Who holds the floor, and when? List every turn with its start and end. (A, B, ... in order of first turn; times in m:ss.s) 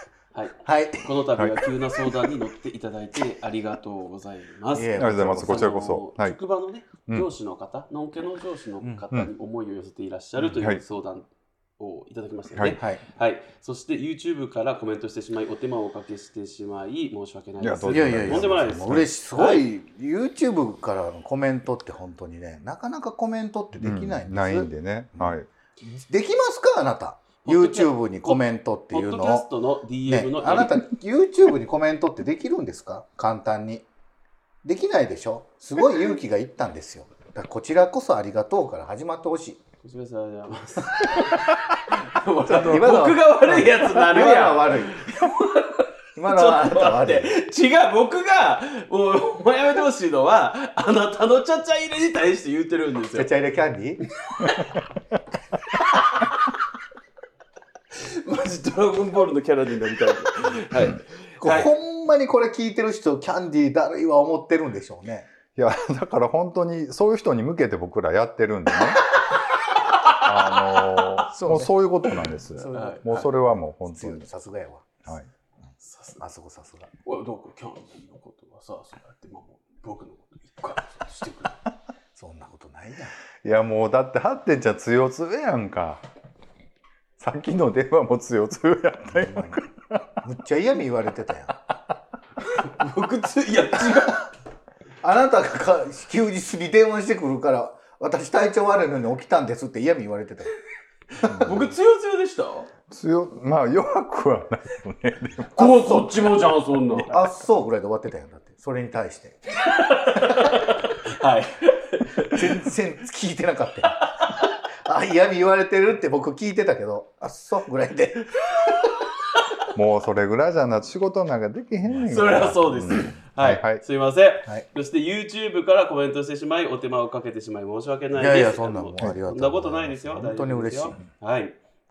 0:00.3-0:11.3 A
0:00.6-0:01.1 B
0:01.4-0:01.6 C
0:04.7-0:05.8 B
0:05.0-0:06.4 C
0:10.4-0:10.8 C
0:11.8-0:19.7 A
0:12.5-0:12.8 C
0:12.8-0:13.0 B
0:17.6-0:19.1 C
0:17.9-0:29.5 B
0:23.8-0:25.5 C
0:27.4-0:30.8 A
0:30.1-0:33.9 B
0:34.6-0:39.6 B
0:39.8-0:53.3 A
0:42.5-0:45.0 B
0:46.2-0:47.3 B
0:53.2-0:54.0 B
0:54.3-0:54.8 A
0:55.8-0:56.5 A
0:58.0-1:01.7 A
1:01.4-1:05.3 B
1:05.6-1:09.0 C
1:10.2-1:14.3 C
1:11.2-1:11.8 B
1:12.4-1:15.0 B
1:12.7-1:13.1 A
1:15.8-1:16.2 A
1:16.2-1:16.9 B
1:17.0-1:21.6 A
1:22.2-1:23.2 B
1:23.4-1:26.0 C
1:27.2-1:30.0 C
1:29.2-1:29.6 B
1:30.2-1:31.6 B
1:32.4-1:34.3 A
1:35.0-1:40.6 B
1:41.2-1:41.7 B
1:41.3-1:41.6 C
1:41.4-1:42.7 A
1:42.9-1:45.6 C
1:45.6-1:46.3 B
1:45.6-1:47.2 A
1:47.1-1:49.4 B
1:49.6-1:52.6 A
1:50.2-1:50.7 B
1:52.2-1:58.6 B
1:59.8-2:03.8 C
2:02.1-2:11.6 A
2:08.1-2:11.0 B